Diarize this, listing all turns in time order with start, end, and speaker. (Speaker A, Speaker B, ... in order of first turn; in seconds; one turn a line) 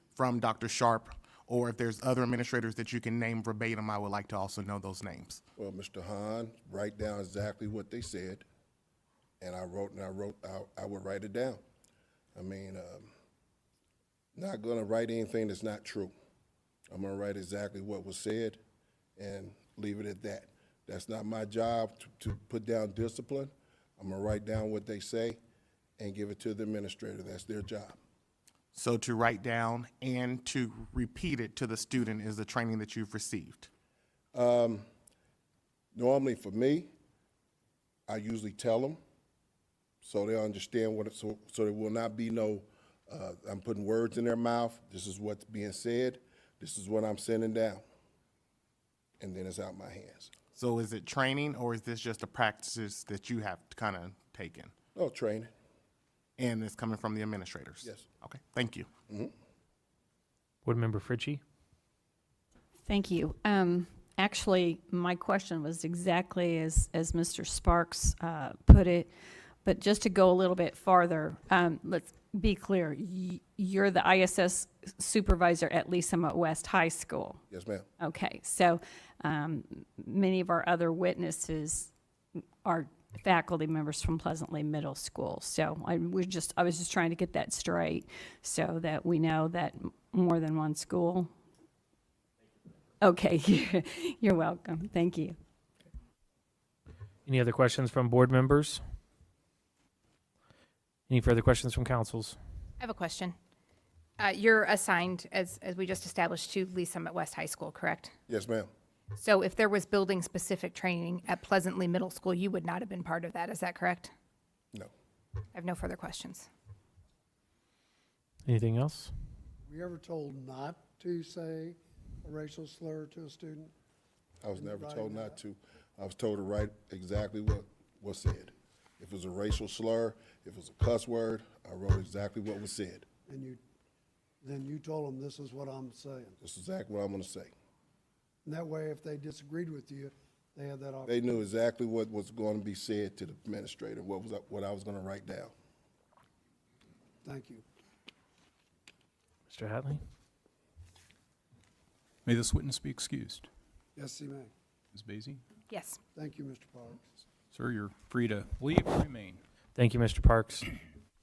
Speaker A: 0.1-5.4
Speaker B: 5.6-8.4
Speaker B: 9.4-11.6
Speaker B: 12.3-13.1
Speaker B: 14.3-16.1
Speaker B: 16.9-18.6
Speaker B: 19.2-25.4
Speaker B: 26.0-28.0
Speaker A: 28.7-33.7
Speaker B: 34.3-34.9
Speaker B: 35.9-36.9
Speaker B: 38.1-39.0
Speaker B: 40.0-47.8
Speaker B: 49.2-50.3
Speaker A: 50.5-54.7
Speaker B: 55.0-55.5
Speaker A: 56.4-58.9
Speaker C: 60.6-61.4
Speaker D: 62.8-69.1
Speaker D: 69.6-77.4
Speaker B: 77.5-77.9
Speaker D: 78.0-81.9
Speaker D: 82.6-91.3
Speaker D: 93.0-95.3
Speaker C: 97.3-98.8
Speaker C: 101.1-102.4
Speaker E: 102.8-103.4
Speaker E: 104.2-108.1
Speaker B: 108.3-108.7
Speaker E: 109.2-114.1
Speaker E: 115.5-116.5
Speaker C: 118.5-119.1
Speaker F: 119.6-123.7
Speaker B: 124.4-133.1
Speaker F: 124.5-125.4
Speaker F: 133.3-133.6
Speaker F: 134.4-136.4
Speaker B: 136.4-137.5
Speaker F: 138.4-141.3
Speaker B: 141.1-145.5
Speaker F: 147.2-147.7
Speaker C: 149.5-150.0
Speaker G: 152.2-153.5
Speaker F: 154.0-154.5
Speaker G: 154.9-155.4
Speaker E: 155.7-156.0
Speaker F: 156.2-157.0
Speaker G: 157.5-159.4
Speaker C: 159.8-160.7